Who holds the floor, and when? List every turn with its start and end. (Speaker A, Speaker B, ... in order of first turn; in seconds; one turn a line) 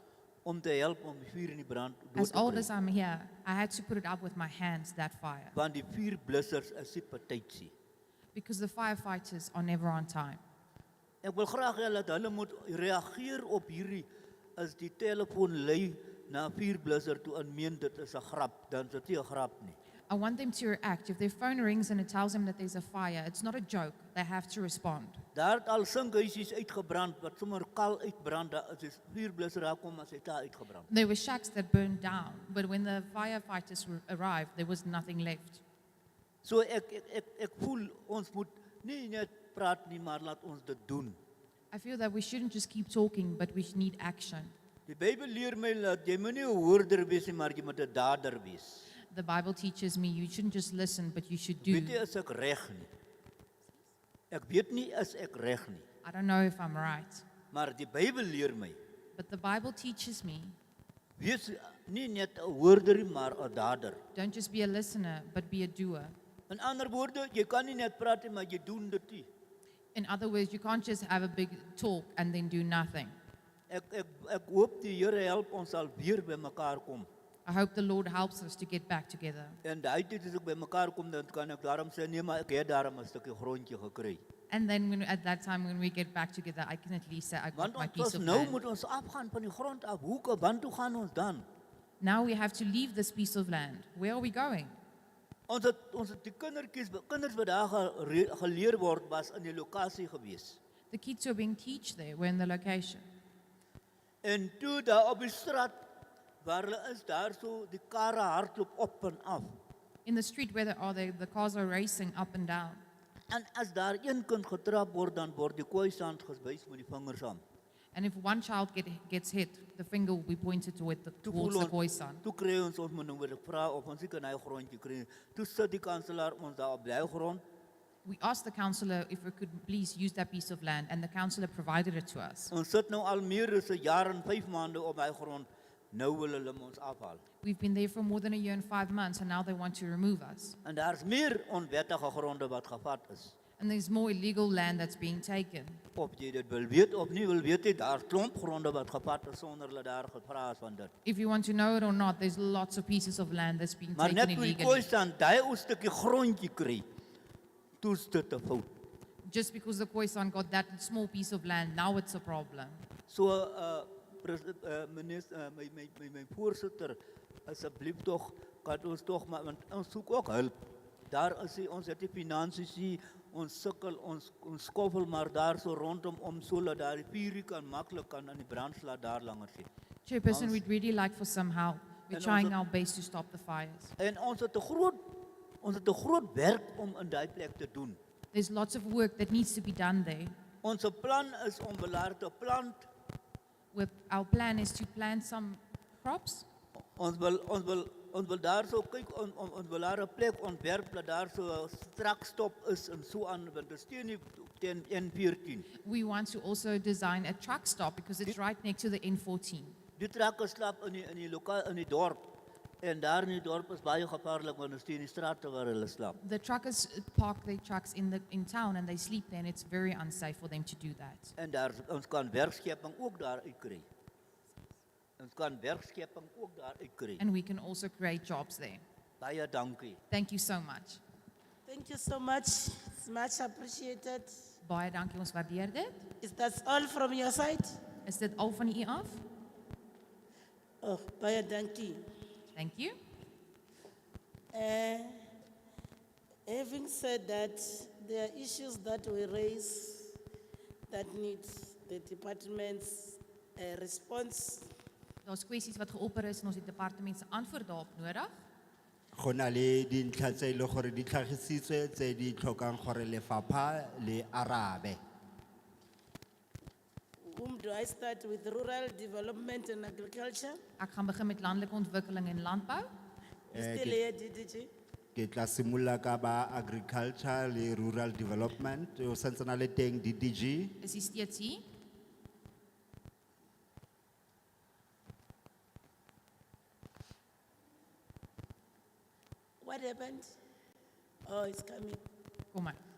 Speaker A: 0.4-2.7
Speaker B: 2.2-5.5
Speaker A: 5.5-7.7
Speaker B: 8.3-10.4
Speaker A: 11.2-19.8
Speaker B: 20.1-25.2
Speaker A: 25.3-30.9
Speaker B: 30.9-35.6
Speaker A: 36.4-41.2
Speaker B: 41.7-44.5
Speaker A: 44.9-48.9
Speaker B: 49.1-52.0
Speaker A: 51.6-52.9
Speaker A: 54.3-55.8
Speaker B: 56.0-57.2
Speaker A: 57.5-58.8
Speaker B: 59.1-60.5
Speaker A: 61.2-64.0
Speaker B: 64.1-66.1
Speaker A: 66.5-69.3
Speaker B: 69.9-73.1
Speaker A: 73.7-77.1
Speaker B: 77.5-79.6
Speaker A: 79.6-84.2
Speaker B: 84.5-88.6
Speaker A: 87.5-91.5
Speaker B: 92.0-94.7
Speaker A: 95.5-100.6
Speaker B: 100.9-103.0
Speaker A: 104.2-105.8
Speaker A: 106.4-109.6
Speaker B: 110.0-112.8
Speaker A: 113.3-117.4
Speaker B: 117.9-122.2
Speaker A: 121.2-127.4
Speaker B: 128.0-132.5
Speaker A: 132.5-137.2
Speaker B: 137.4-140.6
Speaker A: 140.6-143.3
Speaker B: 143.6-145.8
Speaker A: 145.9-150.9
Speaker B: 151.0-154.9
Speaker A: 153.9-156.8
Speaker A: 157.8-158.8
Speaker B: 159.2-162.8
Speaker A: 163.1-170.6
Speaker A: 171.1-179.7
Speaker B: 180.0-183.9
Speaker A: 180.3-180.6
Speaker A: 182.1-182.6
Speaker A: 184.0-185.1
Speaker A: 185.6-188.0
Speaker B: 188.3-190.3
Speaker A: 190.6-192.9
Speaker B: 193.7-196.4
Speaker A: 196.9-205.7
Speaker B: 205.8-209.8
Speaker A: 209.9-212.3
Speaker A: 212.8-216.2
Speaker B: 216.2-221.3
Speaker A: 221.3-223.8
Speaker A: 225.2-227.2
Speaker B: 227.2-228.8
Speaker A: 229.2-230.0
Speaker B: 230.1-231.0
Speaker C: 231.7-234.4
Speaker B: 234.6-236.1
Speaker C: 236.2-237.8
Speaker B: 238.1-239.2
Speaker C: 240.8-242.0
Speaker B: 242.5-242.9
Speaker C: 244.5-245.3
Speaker C: 246.5-250.2
Speaker C: 250.9-254.7
Speaker B: 255.2-258.3
Speaker D: 259.1-265.0
Speaker C: 267.2-270.6
Speaker B: 270.8-272.9
Speaker D: 273.5-274.0
Speaker C: 273.5-274.7
Speaker D: 275.1-280.8
Speaker B: 280.8-281.6
Speaker C: 289.6-290.4
Speaker C: 291.3-292.0
Speaker B: 292.5-292.8